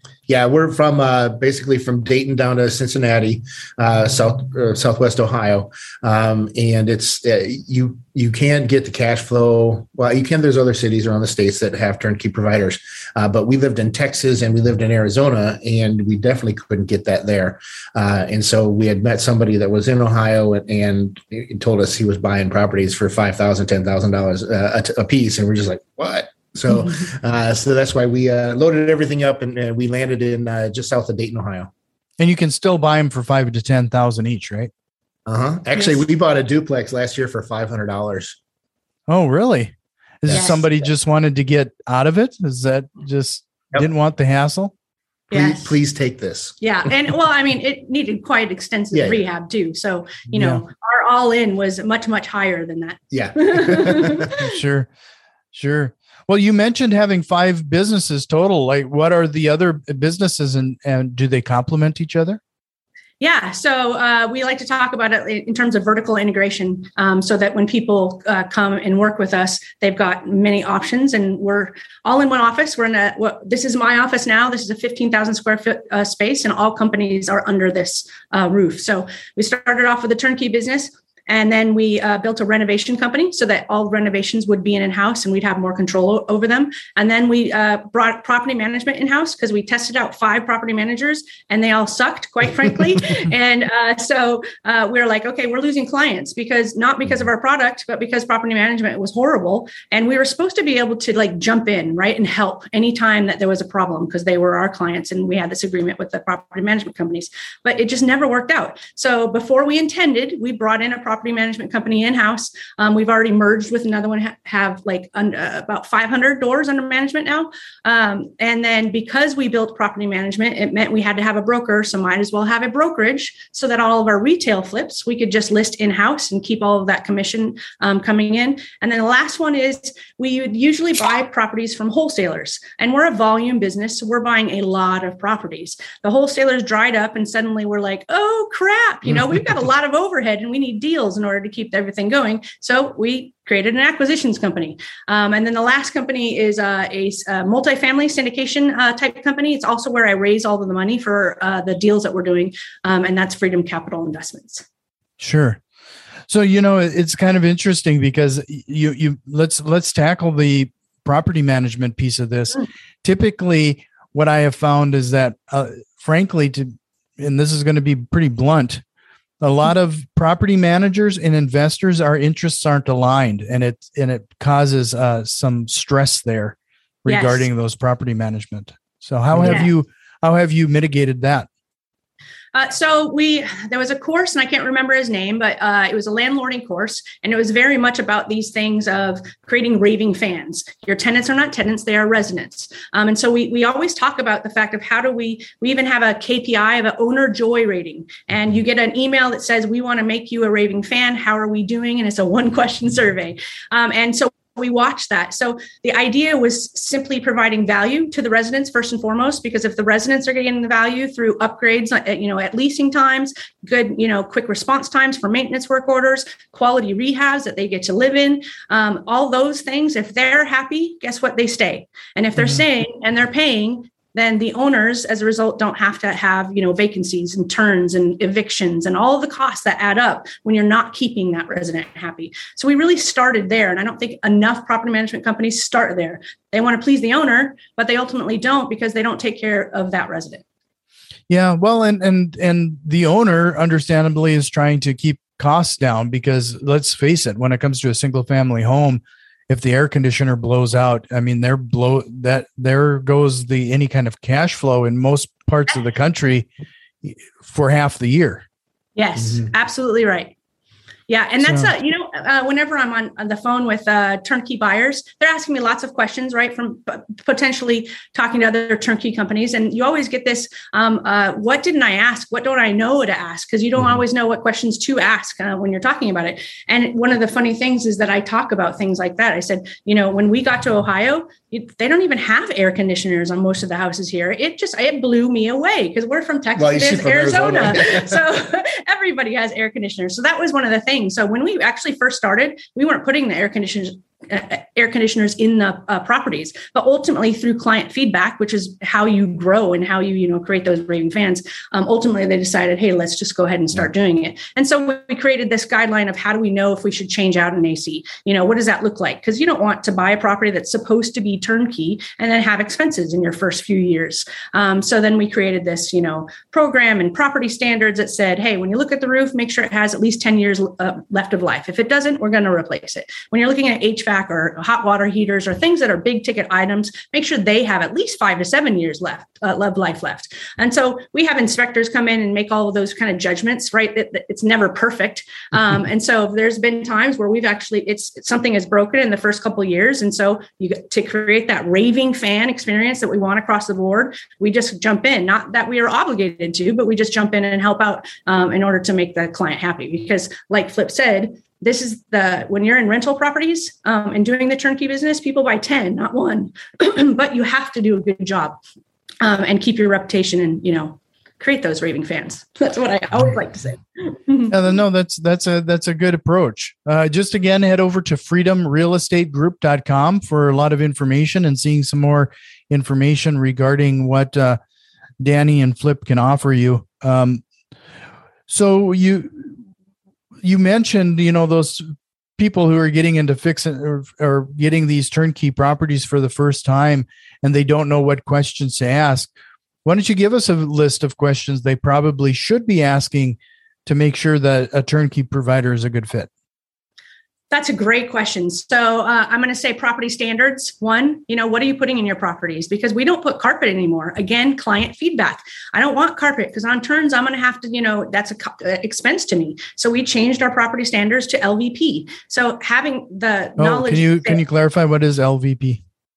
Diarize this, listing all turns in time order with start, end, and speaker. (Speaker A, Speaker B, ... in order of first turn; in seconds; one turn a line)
Speaker A: 0.3-31.7
Speaker B: 32.2-34.7
Speaker A: 35.2-38.4
Speaker C: 35.7-36.0
Speaker B: 39.1-44.7
Speaker A: 40.2-40.6
Speaker C: 40.3-40.6
Speaker C: 45.3-45.7
Speaker A: 45.3-46.6
Speaker C: 46.6-54.4
Speaker A: 48.9-49.2
Speaker B: 50.4-50.6
Speaker A: 53.1-54.3
Speaker B: 54.4-54.9
Speaker B: 55.5-62.4
Speaker C: 63.2-154.6
Speaker B: 155.2-155.6
Speaker B: 156.3-168.8
Speaker B: 169.4-181.5
Speaker C: 177.1-177.5
Speaker C: 179.4-179.7
Speaker C: 182.5-240.4
Speaker B: 241.3-256.5
Speaker B: 257.0-258.4
Speaker C: 258.9-260.3
Speaker C: 261.1-358.6
Speaker B: 261.4-261.7
Speaker A: 286.6-288.2
Speaker C: 359.2-364.5
Speaker B: 364.5-374.6
Speaker B: 375.2-377.4
Speaker B: 378.5-379.6
Speaker B: 380.4-389.3
Speaker B: 389.8-396.3
Speaker C: 397.5-414.4
Speaker B: 413.6-415.8